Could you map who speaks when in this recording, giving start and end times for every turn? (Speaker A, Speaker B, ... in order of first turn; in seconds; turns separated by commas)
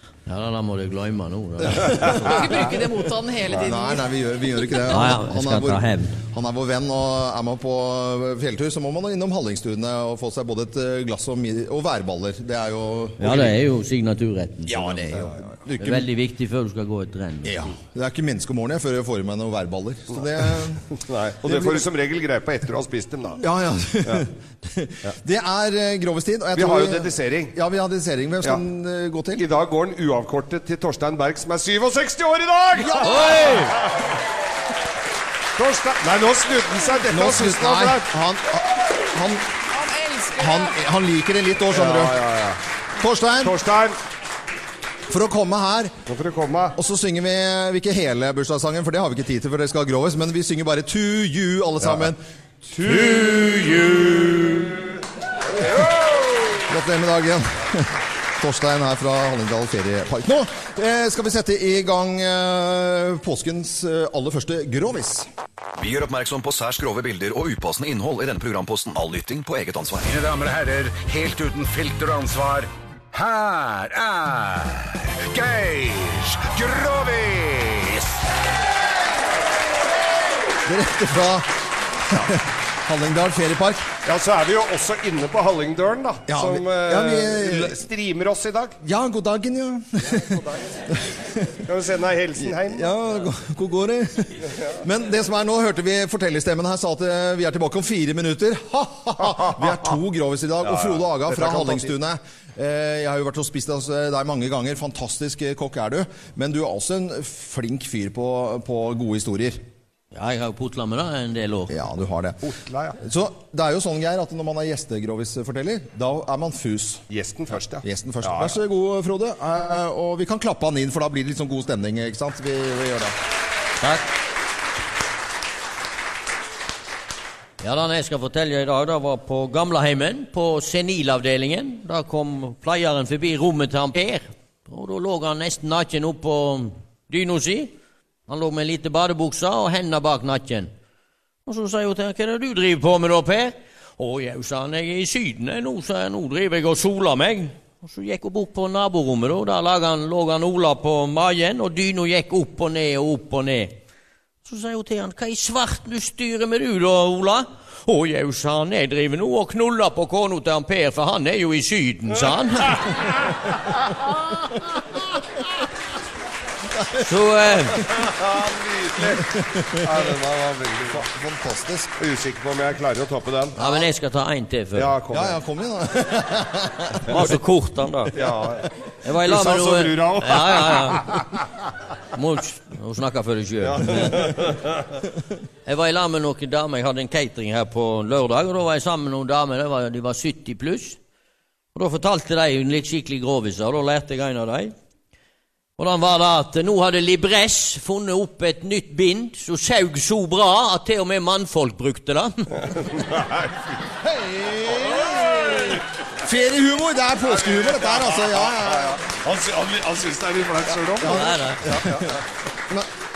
Speaker A: 0.3-2.2, Speaker B: 1.6-2.4, Speaker C: 2.2-4.0, Speaker B: 3.6-13.5, Speaker A: 4.9-6.2, Speaker A: 13.2-17.6, Speaker B: 14.7-16.1, Speaker D: 14.8-15.3, Speaker B: 17.4-20.8, Speaker D: 20.9-23.4, Speaker B: 21.4-21.9, Speaker B: 23.4-29.4, Speaker D: 26.5-27.6, Speaker D: 29.4-33.9, Speaker B: 32.8-33.7, Speaker D: 35.6-38.0, Speaker B: 37.1-39.5, Speaker C: 39.7-40.8, Speaker B: 40.4-42.2, Speaker D: 41.7-42.6, Speaker B: 43.0-43.5, Speaker D: 43.4-44.0, Speaker B: 45.1-45.9, Speaker D: 46.1-46.8, Speaker B: 46.8-52.2, Speaker D: 51.8-52.1, Speaker D: 52.7-54.3, Speaker B: 52.8-54.7, Speaker B: 56.7-65.3, Speaker E: 65.8-70.0, Speaker F: 70.0-78.1, Speaker B: 80.7-81.5, Speaker B: 82.0-83.9, Speaker D: 84.0-88.7, Speaker B: 86.3-87.8, Speaker B: 88.8-90.3, Speaker D: 90.1-90.4, Speaker B: 91.1-91.5, Speaker D: 91.6-92.9, Speaker B: 92.4-109.6, Speaker D: 100.6-101.9, Speaker A: 110.1-111.7, Speaker B: 111.7-112.4, Speaker D: 112.4-113.0, Speaker B: 113.0-117.0, Speaker D: 117.1-118.5, Speaker B: 117.8-123.1, Speaker A: 127.6-137.7, Speaker A: 138.3-140.7, Speaker A: 141.4-153.8, Speaker A: 154.4-162.8, Speaker A: 167.0-168.0, Speaker D: 168.0-171.1, Speaker B: 170.9-171.9, Speaker D: 172.0-173.8, Speaker A: 173.6-174.9, Speaker D: 174.7-175.3, Speaker B: 175.1-177.3, Speaker A: 177.1-178.2, Speaker D: 178.1-181.2, Speaker A: 179.0-181.2, Speaker A: 182.1-184.4, Speaker D: 183.6-184.6, Speaker A: 185.7-191.0, Speaker A: 191.7-194.7, Speaker A: 195.8-202.7, Speaker D: 203.1-203.5, Speaker B: 204.0-209.0, Speaker D: 207.3-212.1, Speaker B: 210.9-212.0, Speaker A: 211.1-211.6